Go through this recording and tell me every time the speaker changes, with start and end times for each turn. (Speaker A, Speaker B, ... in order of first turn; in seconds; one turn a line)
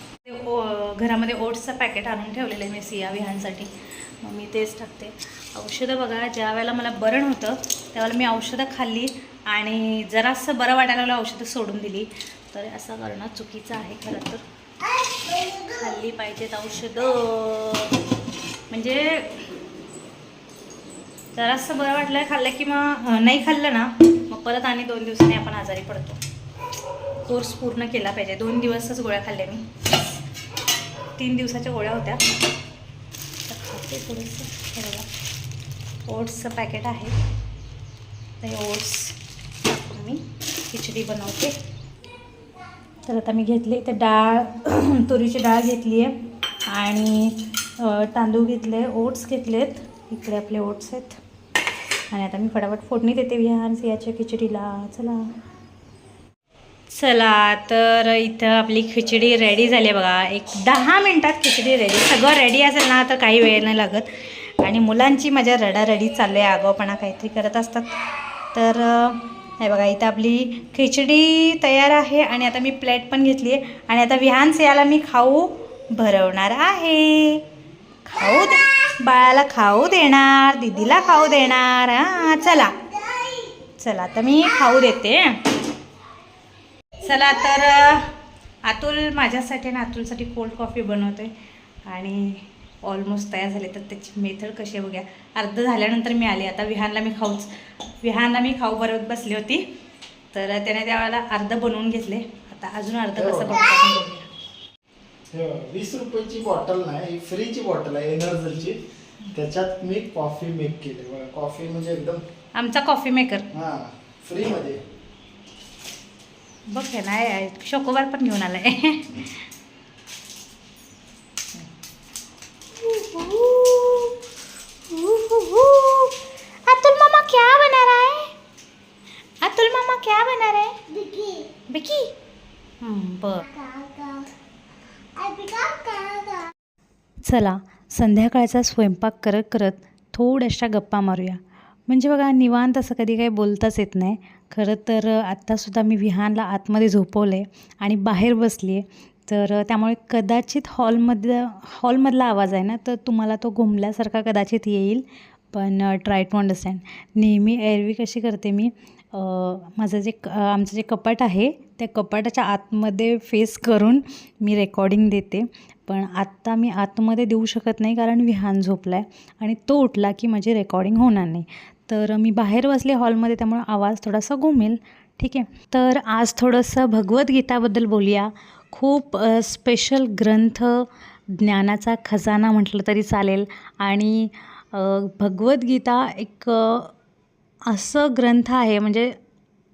Speaker A: 0.2-14.4
Speaker A: 15.6-17.9
Speaker A: 18.7-19.4
Speaker A: 21.3-26.2
Speaker A: 27.2-29.8
Speaker A: 31.2-32.2
Speaker A: 33.5-35.1
Speaker A: 36.1-37.2
Speaker A: 38.4-41.5
Speaker A: 43.0-46.1
Speaker A: 46.7-51.2
Speaker A: 52.1-55.2
Speaker A: 56.9-68.0
Speaker A: 68.5-77.4
Speaker A: 78.0-82.7
Speaker B: 83.1-83.5
Speaker A: 83.8-85.4
Speaker A: 87.0-88.1
Speaker A: 88.6-91.3
Speaker A: 91.9-99.6
Speaker A: 100.3-104.3
Speaker C: 103.2-103.5
Speaker C: 105.3-108.8
Speaker C: 109.3-112.2
Speaker A: 112.5-113.5
Speaker C: 113.5-114.8
Speaker A: 116.7-119.4
Speaker A: 122.8-124.2
Speaker A: 124.9-126.1
Speaker A: 126.7-128.3
Speaker A: 129.4-130.8
Speaker B: 130.9-131.5
Speaker A: 131.7-132.1
Speaker A: 132.8-133.5
Speaker B: 133.5-134.3
Speaker B: 135.2-136.5
Speaker A: 137.2-186.9
Speaker A: 187.7-189.1